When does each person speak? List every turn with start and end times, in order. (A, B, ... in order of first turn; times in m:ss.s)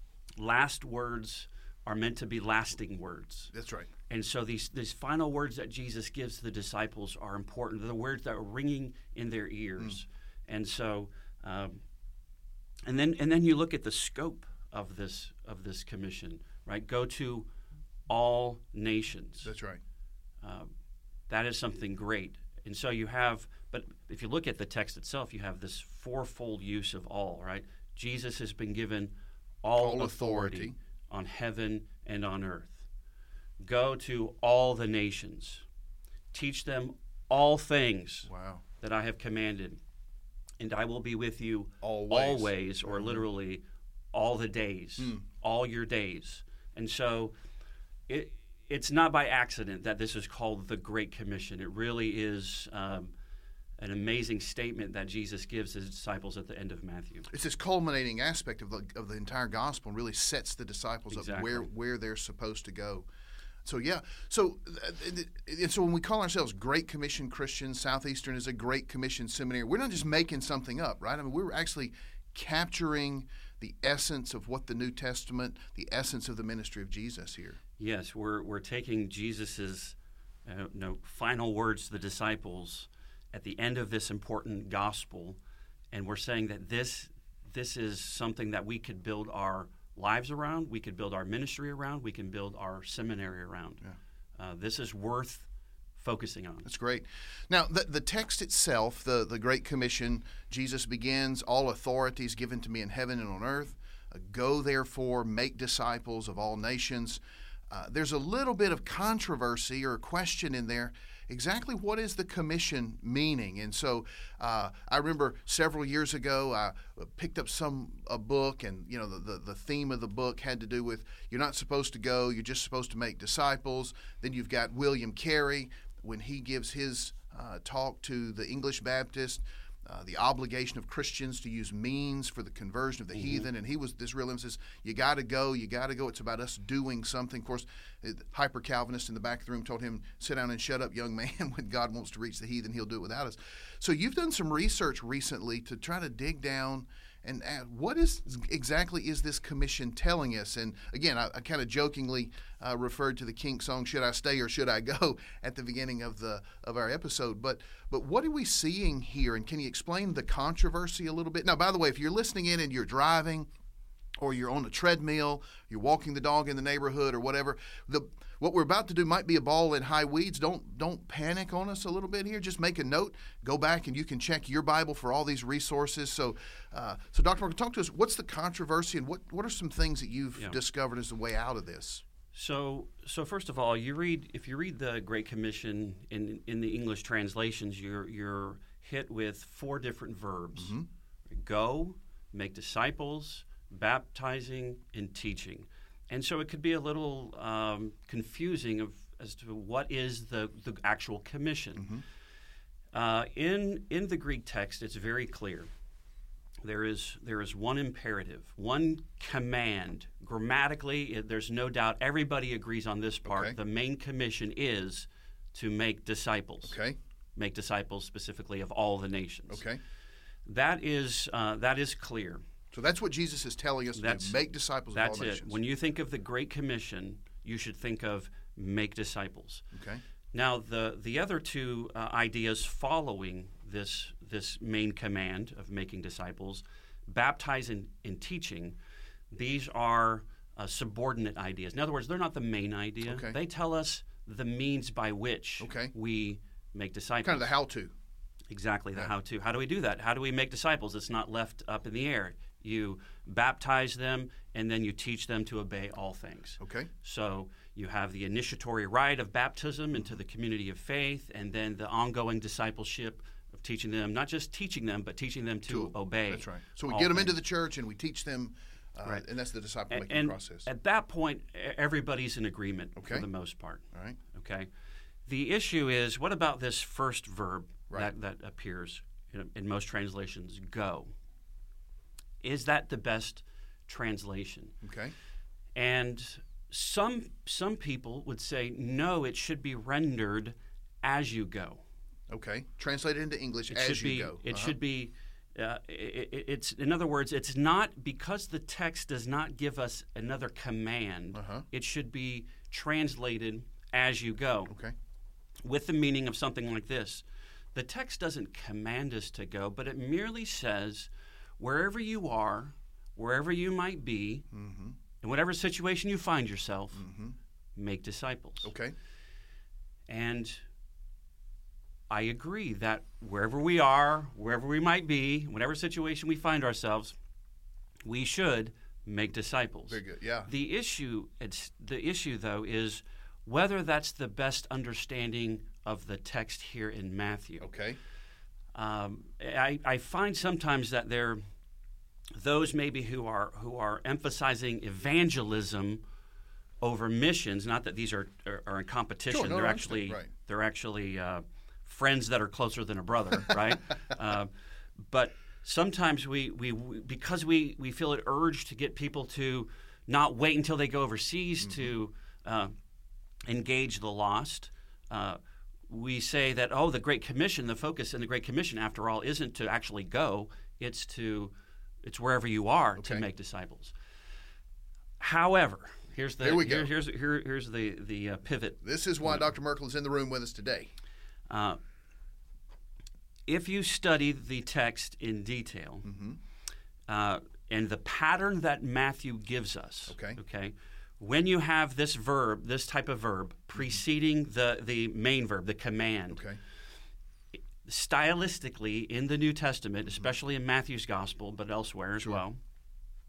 0:00.4-0:03.5 A
0:03.5-0:03.9 B
0:04.1-0:11.8 A
0:12.8-0:17.5 A
0:18.1-0:19.5 A
0:19.4-0:19.8 B
0:20.4-0:20.7 A
0:21.3-0:32.9 A
0:29.8-0:30.8 B
0:33.6-0:35.6 A
0:36.3-0:39.8 A
0:38.3-0:38.6 B
0:40.6-0:47.3 A
0:41.8-0:43.2 B
0:48.1-0:53.1 A
0:53.8-0:57.3 A
0:57.3-1:03.1 B
1:01.1-1:01.7 A
1:03.6-1:17.6 B
1:17.8-1:25.4 A
1:25.9-1:33.8 A
1:34.4-1:36.7 A
1:36.6-2:43.5 B
2:13.2-2:13.5 A
2:44.2-3:02.0 B
3:02.3-3:10.8 A
3:10.6-3:10.9 B
3:11.3-3:22.0 A
3:21.8-3:22.0 B
3:22.9-3:25.7 A
3:26.6-3:36.8 A
3:33.3-3:33.6 B
3:36.6-3:37.0 B
3:37.4-3:39.6 A
3:39.5-3:39.8 B
3:40.5-3:42.4 A
3:42.7-3:45.6 B
3:44.0-3:44.4 A
3:44.9-3:49.6 A
3:49.7-3:50.0 B
3:50.3-3:58.8 A
3:59.3-4:07.5 A
4:03.0-4:03.4 B
4:05.6-4:05.9 B
4:07.2-4:07.9 B
4:08.5-4:27.4 A
4:16.6-4:16.9 B
4:25.7-4:30.7 B
4:29.9-4:34.7 A
4:33.0-4:33.3 B
4:33.9-4:34.2 B
4:35.3-4:41.1 A
4:42.4-4:44.8 A
4:44.8-4:45.1 B
4:45.8-4:51.8 A
4:52.3-4:54.8 B
4:53.7-5:04.8 A
5:01.3-5:01.7 B
5:04.7-5:05.0 B
5:05.6-5:14.5 A
5:14.5-5:15.0 B
5:15.2-5:17.1 A
5:17.0-5:17.4 B
5:17.8-5:18.7 A
5:18.6-5:19.0 B
5:20.1-5:20.6 A
5:22.1-5:27.2 A
5:28.0-5:37.7 A
5:29.9-5:30.5 B
5:37.6-5:38.0 B
5:38.8-5:41.4 A
5:42.4-5:46.0 A
5:46.8-6:02.8 A
5:49.3-5:50.3 B
6:01.6-6:01.9 B
6:03.5-6:13.9 A
6:13.0-6:13.3 B
6:15.2-6:19.5 A
6:16.4-6:16.9 B
6:18.8-6:20.9 B
6:21.5-6:21.8 A
6:23.5-6:26.1 A
6:26.0-6:26.4 B
6:27.1-6:36.4 A
6:30.1-6:30.4 B
6:36.3-6:36.6 B
6:37.8-6:42.6 A